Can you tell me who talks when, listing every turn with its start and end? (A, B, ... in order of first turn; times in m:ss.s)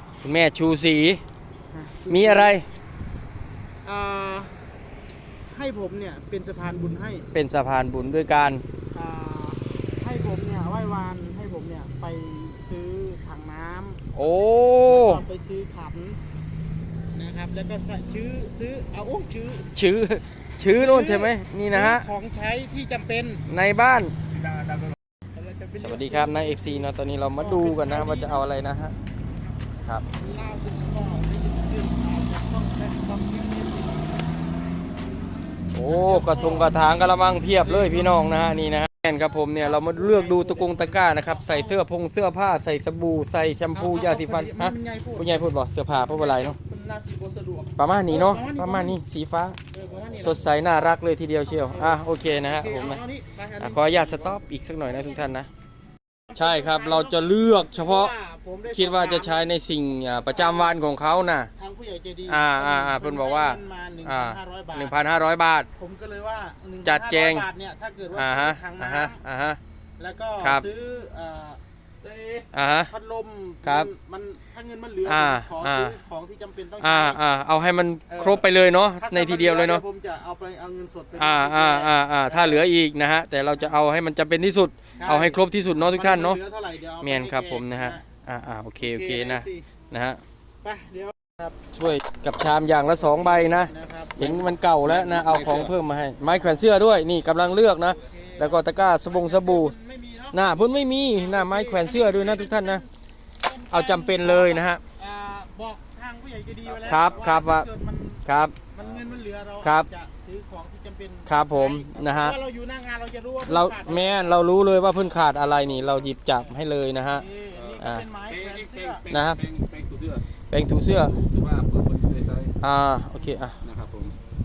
0:00.2-0:01.2 A
0:01.7-0:02.6 B
0:02.1-0:02.6 A
0:03.8-0:04.6 B
0:05.5-0:07.3 B
0:07.3-0:08.6 A
0:08.9-0:14.0 B
0:14.1-0:15.2 A
0:14.8-0:16.2 B
0:17.1-0:19.7 B
0:19.7-0:22.1 A
0:20.7-0:23.4 B
0:23.5-0:24.1 A
0:25.3-0:28.4 B
0:25.8-0:28.9 A
0:30.2-0:34.3 B
0:35.7-0:46.6 A
0:35.8-0:36.7 B
0:37.5-0:38.2 B
0:39.3-0:41.8 B
0:43.7-0:49.0 B
0:47.8-0:49.6 A
0:49.7-0:50.9 B
0:50.2-0:53.0 A
0:51.4-0:54.4 B
0:53.6-0:55.5 A
0:56.3-0:59.5 B
0:56.4-0:58.1 A
0:58.7-1:01.5 A
1:00.2-1:00.8 B
1:01.6-1:05.0 B
1:02.2-1:05.7 A
1:05.8-1:09.2 B
1:06.8-1:07.5 A
1:08.1-1:09.6 A
1:10.0-1:11.6 B
1:10.4-1:10.7 A
1:12.0-1:12.4 C
1:12.5-1:12.9 A
1:12.9-1:17.2 B
1:13.6-1:13.9 A
1:15.0-1:16.0 A
1:16.8-1:19.8 A
1:18.1-1:18.4 B
1:19.0-1:22.7 B
1:21.1-1:26.4 A
1:25.0-1:28.0 B
1:27.0-1:30.2 A
1:28.8-1:29.7 B
1:30.6-1:31.6 B
1:31.7-1:39.7 A
1:33.3-1:34.4 B
1:34.8-1:35.7 C
1:36.3-1:36.6 B
1:38.0-1:40.5 B
1:40.3-1:42.8 A
1:41.1-1:42.8 B
1:43.4-1:54.2 B
1:43.7-1:44.8 A
1:46.6-1:47.2 C
1:46.8-1:47.7 A
1:48.2-1:48.6 A
1:48.8-1:49.2 C
1:49.6-1:49.9 A
1:51.2-1:52.4 A
1:53.5-1:57.3 A
1:55.4-1:56.5 B
1:57.1-1:59.0 B
1:57.5-2:00.2 C
1:57.8-1:58.1 A
1:59.1-1:59.4 A
2:00.5-2:01.2 A
2:01.0-2:02.5 C
2:02.6-2:03.6 A
2:03.6-2:04.2 C